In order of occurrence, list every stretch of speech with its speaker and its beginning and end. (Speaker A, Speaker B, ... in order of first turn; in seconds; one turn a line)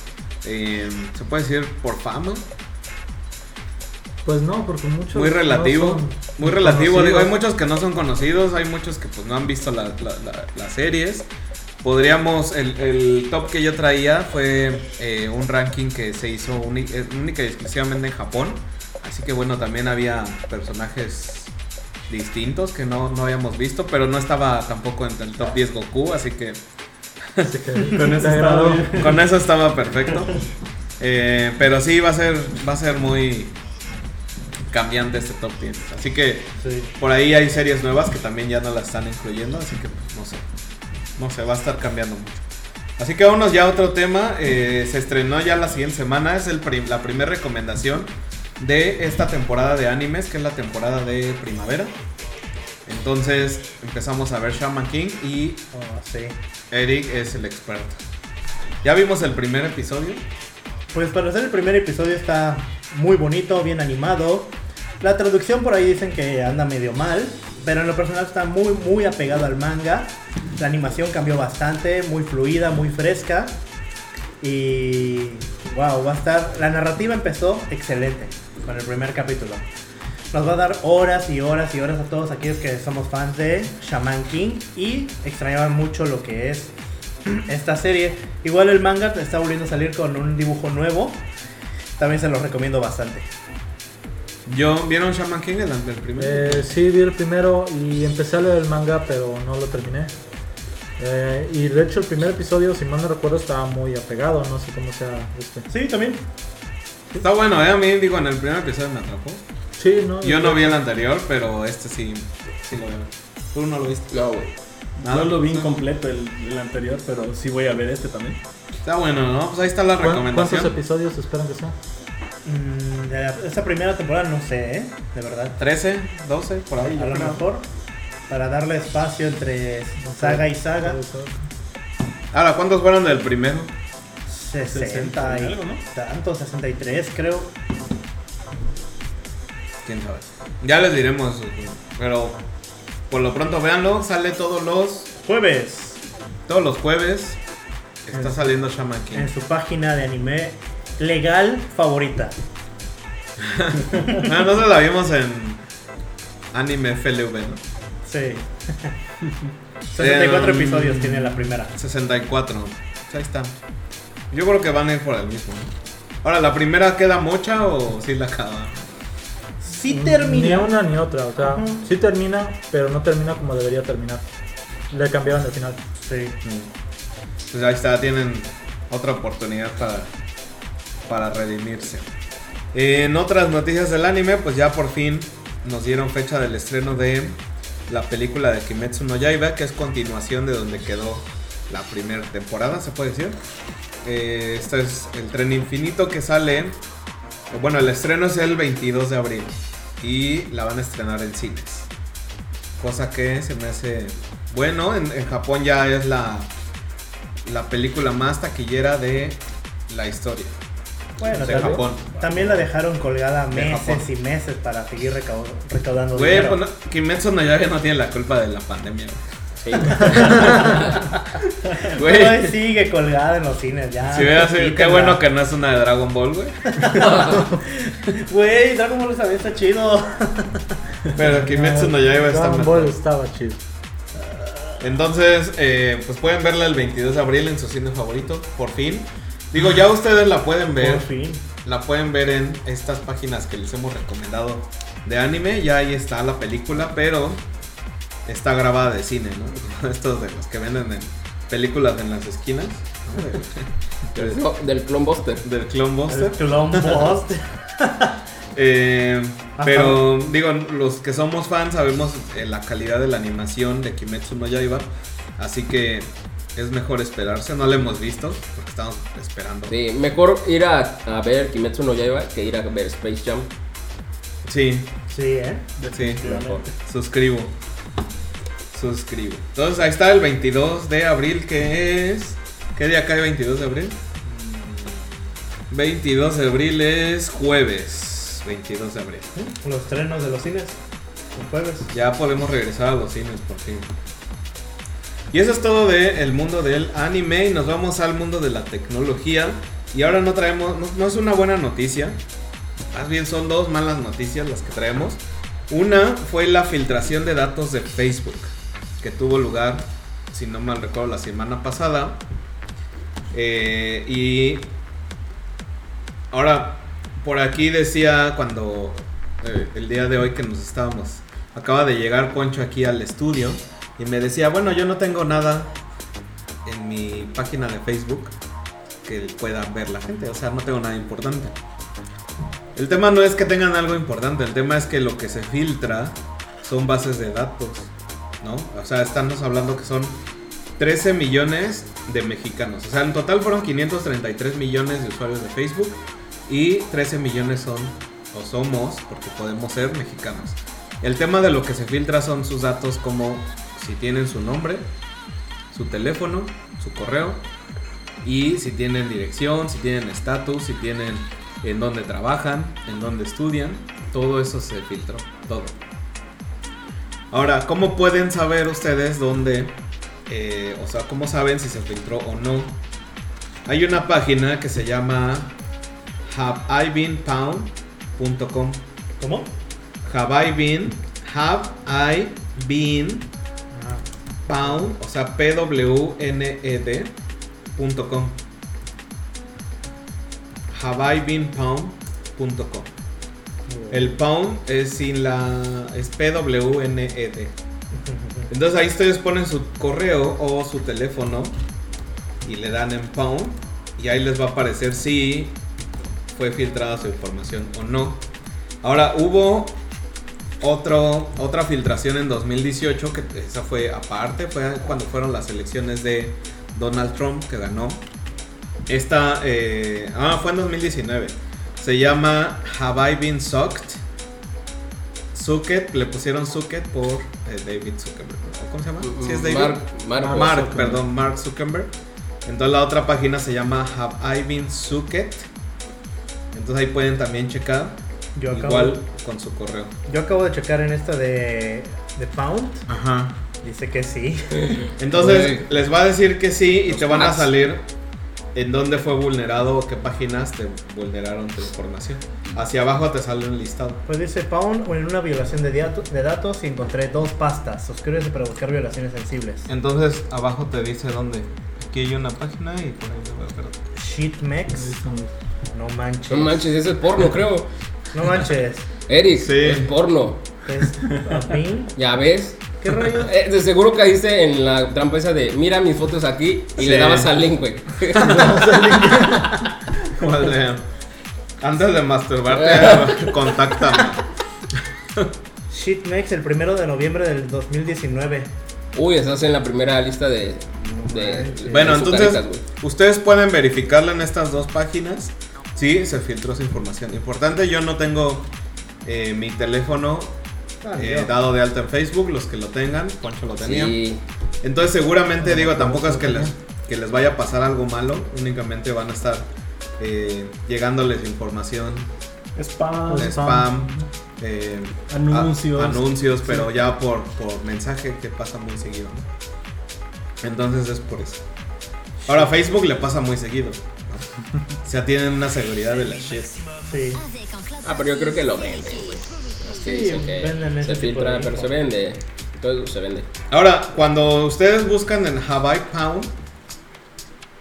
Speaker A: 0.4-2.4
Speaker B: 4.2-7.3
Speaker A: 5.1-11.3
Speaker A: 11.8-21.5
Speaker A: 22.1-26.6
Speaker A: 27.2-27.6
Speaker B: 27.4-29.1
Speaker C: 27.9-29.2
Speaker A: 28.9-30.4
Speaker A: 31.0-33.6
Speaker A: 34.7-40.4
Speaker D: 36.6-36.9
Speaker A: 41.1-42.4
Speaker A: 43.0-51.9
Speaker A: 52.9-55.7
Speaker D: 55.7-56.4
Speaker A: 56.7-58.0
Speaker A: 58.8-60.2
Speaker D: 60.9-73.6
Speaker D: 74.4-79.6
Speaker D: 80.3-86.7
Speaker D: 87.3-91.3
Speaker D: 92.0-93.3
Speaker A: 94.5-96.7
Speaker B: 96.2-100.1
Speaker B: 101.0-105.7
Speaker D: 105.7-106.2
Speaker A: 107.2-109.4
Speaker B: 109.8-110.8
Speaker A: 110.2-114.1
Speaker E: 114.1-114.5
Speaker C: 115.0-118.4
Speaker A: 115.0-115.7
Speaker A: 118.8-120.7
Speaker B: 120.0-121.8
Speaker D: 122.5-125.6
Speaker A: 125.6-127.2
Speaker C: 126.8-127.4
Speaker D: 127.0-127.7
Speaker D: 128.3-131.0
Speaker B: 130.0-131.4
Speaker A: 132.3-133.7
Speaker D: 134.3-137.5
Speaker C: 134.6-135.8
Speaker A: 139.8-142.4
Speaker A: 143.1-145.1
Speaker D: 145.2-146.0
Speaker A: 146.5-147.4
Speaker A: 148.1-149.3
Speaker D: 148.1-148.4
Speaker D: 149.1-152.4
Speaker A: 153.4-155.6
Speaker D: 153.9-154.3
Speaker A: 156.5-157.6
Speaker D: 158.1-158.9
Speaker D: 159.9-161.7
Speaker A: 159.9-163.6
Speaker A: 164.3-168.9
Speaker D: 169.6-170.8
Speaker B: 169.9-174.2
Speaker D: 171.5-171.8
Speaker B: 174.9-175.8
Speaker D: 176.0-176.4
Speaker A: 176.4-176.7
Speaker A: 177.5-180.1
Speaker A: 181.1-182.1
Speaker A: 182.7-193.4
Speaker A: 194.0-196.8
Speaker A: 197.5-201.9
Speaker A: 202.8-206.5
Speaker A: 207.4-210.6
Speaker D: 211.2-216.6
Speaker A: 211.3-212.2
Speaker C: 211.9-212.5
Speaker A: 213.5-214.1
Speaker A: 216.1-219.2
Speaker E: 219.6-221.0
Speaker A: 219.8-220.9
Speaker D: 220.1-220.9
Speaker A: 221.8-222.5
Speaker D: 221.9-225.2
Speaker A: 224.1-227.3
Speaker D: 226.7-230.7
Speaker A: 231.1-232.9
Speaker B: 231.3-233.6
Speaker D: 234.2-234.8
Speaker A: 234.8-241.1
Speaker D: 240.8-241.4
Speaker A: 241.6-247.4
Speaker A: 248.3-254.5
Speaker E: 254.1-255.5
Speaker A: 255.4-257.1
Speaker D: 256.1-258.2
Speaker A: 258.5-269.8
Speaker D: 259.6-260.1
Speaker E: 269.7-273.5
Speaker A: 274.4-274.9
Speaker D: 275.1-275.7
Speaker C: 275.8-276.7
Speaker A: 275.9-277.5
Speaker A: 278.7-284.0
Speaker D: 284.3-284.8
Speaker A: 285.7-289.3
Speaker D: 289.4-290.8
Speaker D: 291.3-291.9
Speaker A: 291.9-293.9
Speaker A: 295.3-302.2
Speaker A: 302.9-312.2
Speaker A: 313.3-314.7
Speaker A: 316.3-325.8
Speaker A: 326.6-328.3
Speaker A: 329.1-331.6
Speaker A: 332.7-340.2
Speaker A: 340.8-354.8
Speaker A: 355.7-357.4
Speaker A: 358.2-365.8
Speaker A: 367.3-369.8
Speaker A: 370.3-372.8
Speaker A: 373.6-375.6
Speaker A: 376.3-378.8
Speaker D: 379.2-379.5
Speaker A: 380.0-383.3
Speaker D: 383.7-384.0
Speaker A: 384.4-387.1
Speaker A: 387.8-388.4
Speaker A: 390.7-392.9
Speaker D: 393.7-394.1
Speaker A: 393.9-397.6
Speaker D: 398.1-398.5
Speaker A: 398.5-401.6
Speaker A: 402.4-405.6
Speaker A: 406.3-408.2
Speaker A: 408.8-409.8
Speaker A: 410.6-418.0
Speaker A: 418.9-424.0
Speaker A: 425.3-431.9
Speaker E: 429.0-430.9
Speaker B: 430.2-431.0
Speaker A: 432.4-435.5
Speaker A: 436.5-439.9
Speaker D: 438.4-439.0
Speaker D: 440.1-442.8
Speaker A: 442.9-443.4
Speaker D: 443.6-444.9
Speaker A: 445.0-447.9
Speaker E: 445.1-445.7
Speaker E: 446.9-447.5
Speaker A: 448.5-454.0
Speaker D: 454.1-459.7
Speaker A: 459.7-463.8
Speaker D: 464.0-465.0
Speaker B: 464.8-465.3
Speaker D: 465.7-466.6
Speaker E: 466.3-467.7
Speaker D: 468.1-468.9
Speaker E: 469.1-470.4
Speaker A: 469.4-469.9
Speaker D: 470.7-471.9
Speaker E: 471.9-478.7
Speaker D: 472.8-473.3
Speaker A: 476.8-477.3
Speaker A: 478.1-479.5
Speaker A: 480.0-480.8
Speaker A: 481.6-484.3
Speaker E: 482.5-483.6
Speaker D: 485.7-488.5
Speaker E: 488.9-492.6
Speaker D: 490.8-491.9
Speaker A: 491.7-498.5
Speaker A: 499.1-500.4
Speaker D: 500.8-501.3
Speaker A: 500.9-504.0
Speaker E: 503.6-504.2
Speaker A: 504.6-512.1
Speaker B: 505.4-506.5
Speaker C: 512.5-513.4
Speaker B: 513.1-514.0
Speaker A: 513.1-519.3
Speaker C: 515.1-516.7
Speaker A: 520.4-521.4
Speaker A: 522.3-524.3
Speaker A: 524.8-526.6
Speaker D: 526.9-527.2
Speaker E: 527.8-533.3
Speaker D: 529.8-531.7
Speaker A: 533.5-536.3